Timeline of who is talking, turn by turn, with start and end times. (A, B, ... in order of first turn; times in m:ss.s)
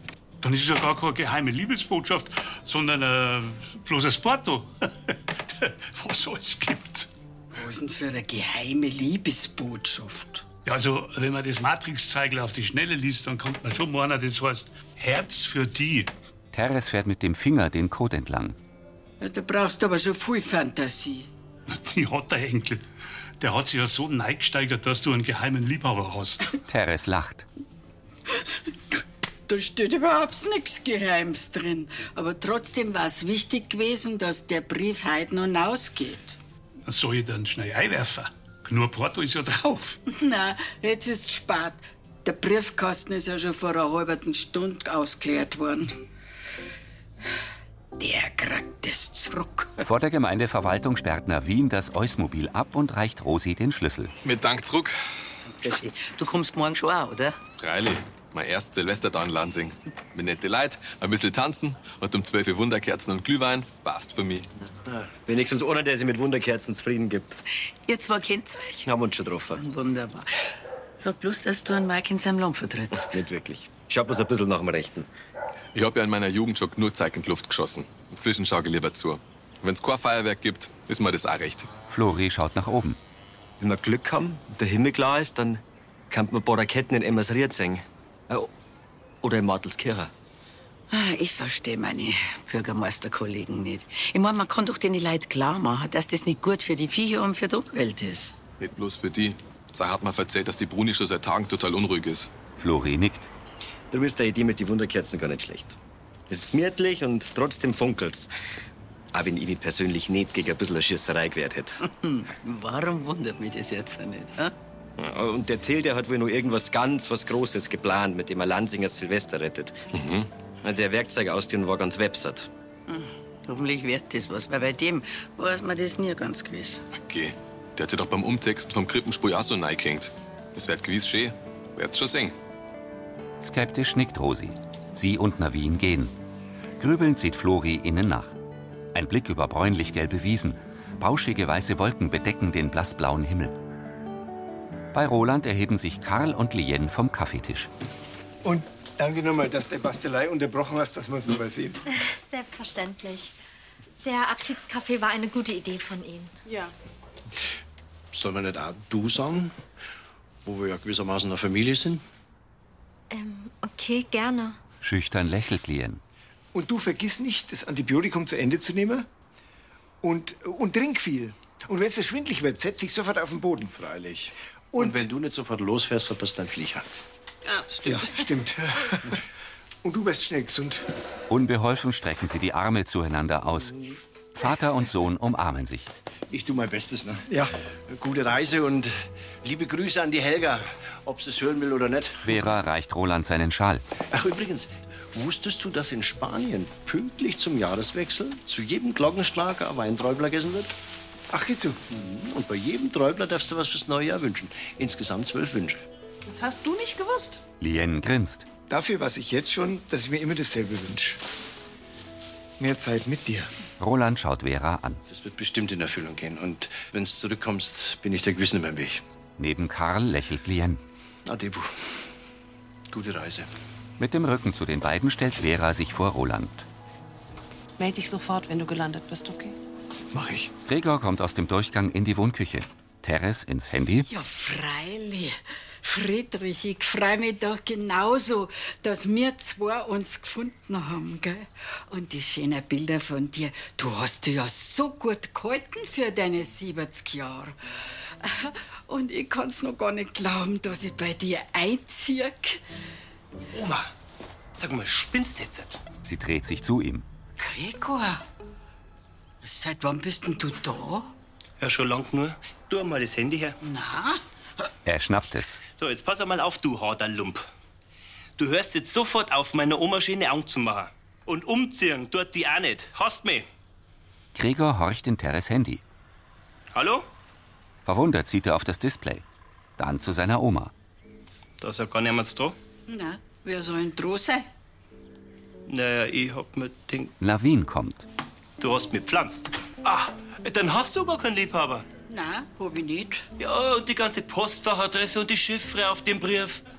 0:00.4-0:07.1 A
0:07.5-0:10.4 B
0:10.6-0:16.1 A
0:16.5-0:18.6 C
0:19.2-0:21.3 B
0:21.7-0:22.8 A
0:23.4-0:26.5 A
0:26.7-0:27.5 C
0:28.3-0:28.9 B
0:29.5-0:36.4 B
0:36.8-0:40.0 A
0:40.1-0:46.0 B
0:48.0-0:49.8 B
0:49.8-0:54.1 C
0:54.2-0:55.0 D
0:55.5-0:57.4 E
0:57.6-1:04.5 D
1:05.2-1:07.4 F
1:07.8-1:08.8 E
1:08.8-1:09.6 F
1:09.6-1:10.3 E
1:11.0-1:13.2 E
1:13.0-1:15.1 F
1:15.7-1:21.7 D
1:21.9-1:23.0 C
1:23.6-1:28.5 F
1:29.2-1:30.1 F
1:30.9-1:32.1 B
1:32.3-1:37.7 E
1:37.7-1:38.3 B
1:38.6-1:42.3 D
1:42.6-1:43.3 C
1:43.9-1:45.8 F
1:46.3-1:48.3 F
1:49.1-1:51.8 F
1:51.8-1:54.5 E
1:55.0-2:00.0 F
2:00.6-2:02.5 F
2:02.9-2:06.8 E
2:06.9-2:12.4 D
2:13.4-2:16.1 C
2:16.8-2:18.3 C
2:18.9-2:23.6 C
2:24.9-2:27.7 C
2:28.4-2:31.8 G
2:32.0-2:33.3 H
2:34.0-2:36.3 H
2:36.4-2:36.7 I
2:38.1-2:39.5 J
2:40.4-2:42.0 J
2:43.1-2:44.6 H
2:44.8-2:46.0 C
2:46.5-2:49.1 G
2:50.0-2:53.7 G
2:53.7-2:56.8 J
2:54.7-2:55.0 G
2:57.5-2:58.3 I
2:57.8-2:59.2 G
2:59.8-3:00.8 G
3:01.3-3:05.9 C
3:06.3-3:07.2 J
3:07.9-3:12.4 J
3:12.2-3:13.8 C
3:14.1-3:20.7 J
3:21.3-3:21.8 G
3:21.9-3:25.8 J
3:26.2-3:27.4 I
3:27.6-3:28.5 C
3:28.7-3:31.2 G
3:32.6-3:33.5 G
3:33.8-3:35.0 C
3:35.1-3:39.0 J
3:39.4-3:40.8 C
3:41.2-3:42.0 J
3:42.9-3:43.5 J
3:44.0-3:46.7 C
3:47.8-3:49.6 I
3:50.2-3:50.5 J
3:50.6-3:54.1 C
3:54.1-4:07.6 B
4:08.2-4:12.6 B
4:13.5-4:13.9 K
4:14.6-4:15.8 K
4:16.0-4:17.0 C
4:17.4-4:18.2 B
4:19.4-4:21.1 B
4:21.6-4:23.6 K
4:23.6-4:24.2 B
4:24.8-4:25.6 C
4:25.8-4:27.4 K
4:28.4-4:33.5 K
4:34.3-4:35.8 C
4:36.7-4:37.0 K
4:37.8-4:39.2 C
4:39.8-4:40.7 C
4:41.6-4:42.6 K
4:42.9-4:44.5 B
4:45.7-4:47.1 K
4:47.2-4:48.1 C
4:48.6-4:51.8 K
4:52.1-4:53.2 B
4:53.4-4:56.6 K